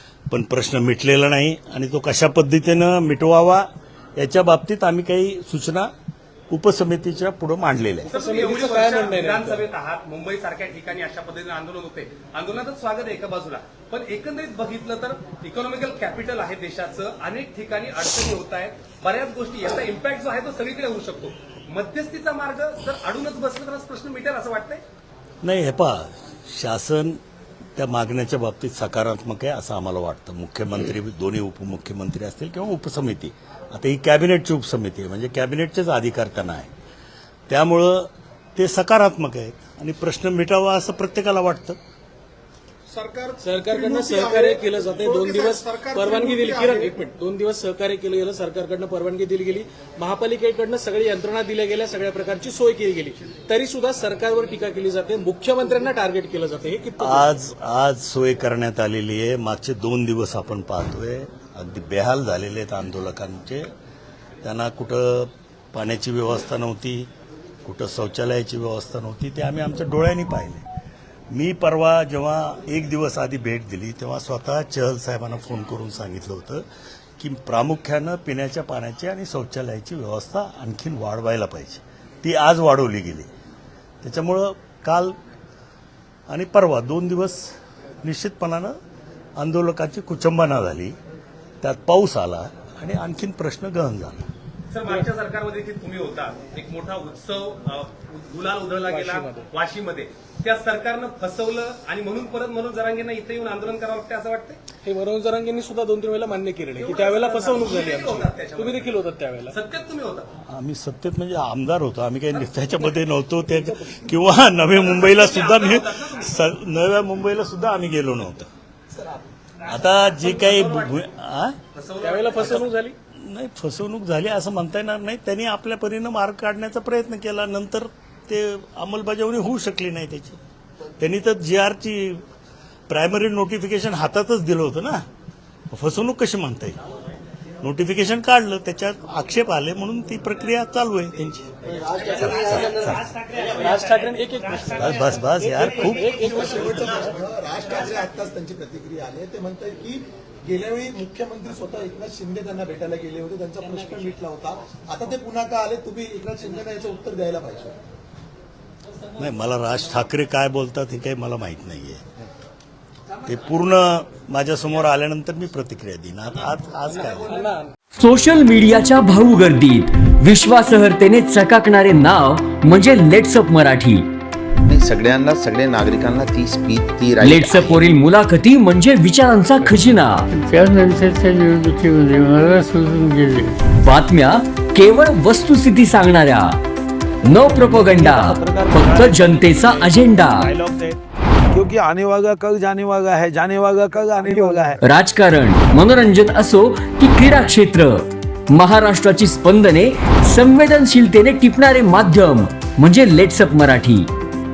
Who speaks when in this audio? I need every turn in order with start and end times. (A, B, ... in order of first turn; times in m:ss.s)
0:00.3-0:05.9 A
0:06.5-0:08.1 A
0:08.1-0:09.6 B
0:08.1-0:24.8 C
0:25.4-0:27.2 A
0:27.8-0:36.7 A
0:37.5-0:41.8 A
0:42.9-0:46.9 D
0:43.4-0:57.3 B
0:57.0-1:03.7 A
1:04.4-1:07.1 A
1:07.6-1:10.6 A
1:11.3-1:16.6 A
1:17.2-1:23.3 A
1:24.0-1:25.2 A
1:26.3-1:27.5 A
1:28.0-1:28.8 A
1:29.4-1:31.0 A
1:31.6-1:34.2 A
1:34.7-1:44.6 C
1:38.9-1:39.5 B
1:44.8-1:49.6 B
1:46.8-1:48.9 C
1:49.5-1:50.3 C
1:50.5-1:58.5 A
1:53.5-1:54.0 B
1:54.7-1:56.3 C
1:58.9-1:59.4 E
1:59.7-2:01.6 A
1:59.7-2:01.0 C
2:01.7-2:02.7 C
2:02.0-2:03.0 B
2:03.2-2:10.4 A
2:11.0-2:12.2 A
2:12.9-2:15.0 A
2:15.7-2:16.8 A
2:17.6-2:23.0 A
2:21.7-2:22.8 E
2:23.4-2:27.1 B
2:24.6-2:26.5 A
2:26.0-2:37.8 E
2:39.2-2:42.0 A
2:43.2-2:47.4 A
2:47.0-2:47.7 B
2:48.0-2:54.1 F
2:54.7-2:57.8 G
2:57.2-3:00.3 F
3:00.3-3:03.6 H
3:03.7-3:06.6 F
3:07.2-3:10.5 F
3:07.5-3:11.0 I
3:11.5-3:14.8 I
3:14.8-3:24.1 F